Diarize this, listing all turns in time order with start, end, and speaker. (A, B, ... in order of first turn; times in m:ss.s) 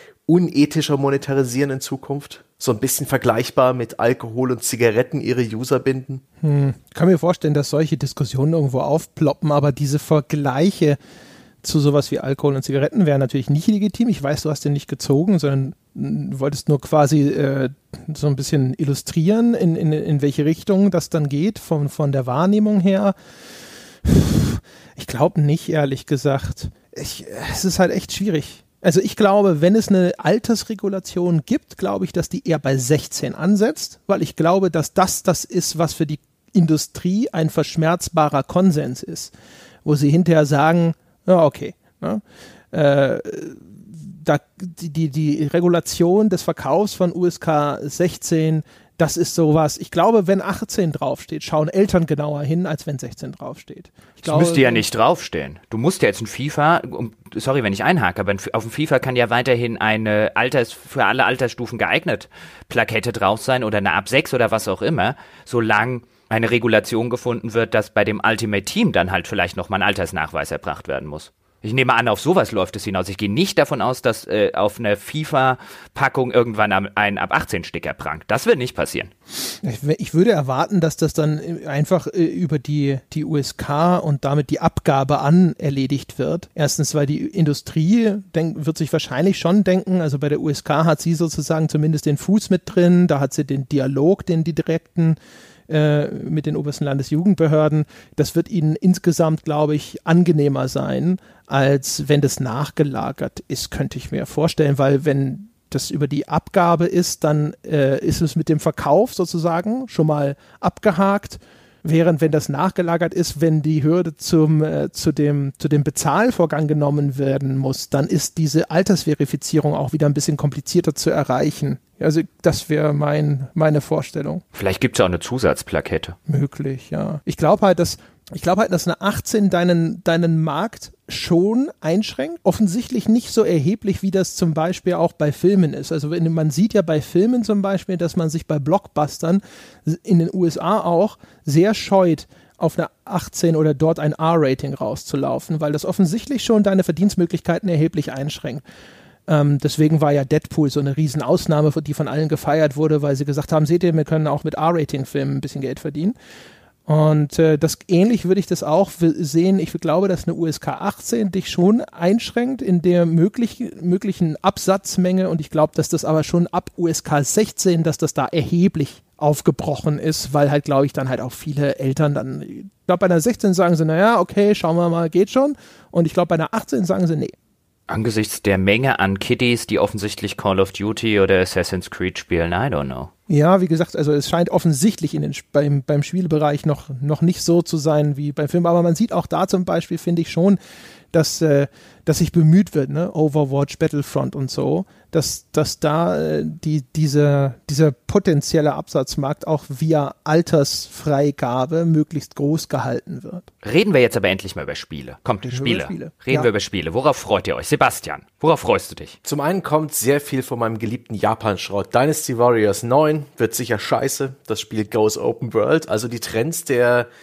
0:00.3-0:06.2 A
0:06.4-0:11.0 B
0:11.6-0:23.1 B
0:24.0-0:39.3 B
0:39.8-0:54.8 B
0:54.2-1:19.1 C
1:19.6-1:35.2 B
1:35.7-2:04.4 B
2:04.6-2:06.2 C
2:06.3-2:28.6 B
2:29.3-2:36.1 B
2:36.9-2:57.3 B
2:57.9-3:03.1 C
3:03.3-3:10.6 B
3:11.1-3:23.4 B
3:23.6-3:29.2 C
3:25.5-3:26.5 B
3:29.2-3:37.1 A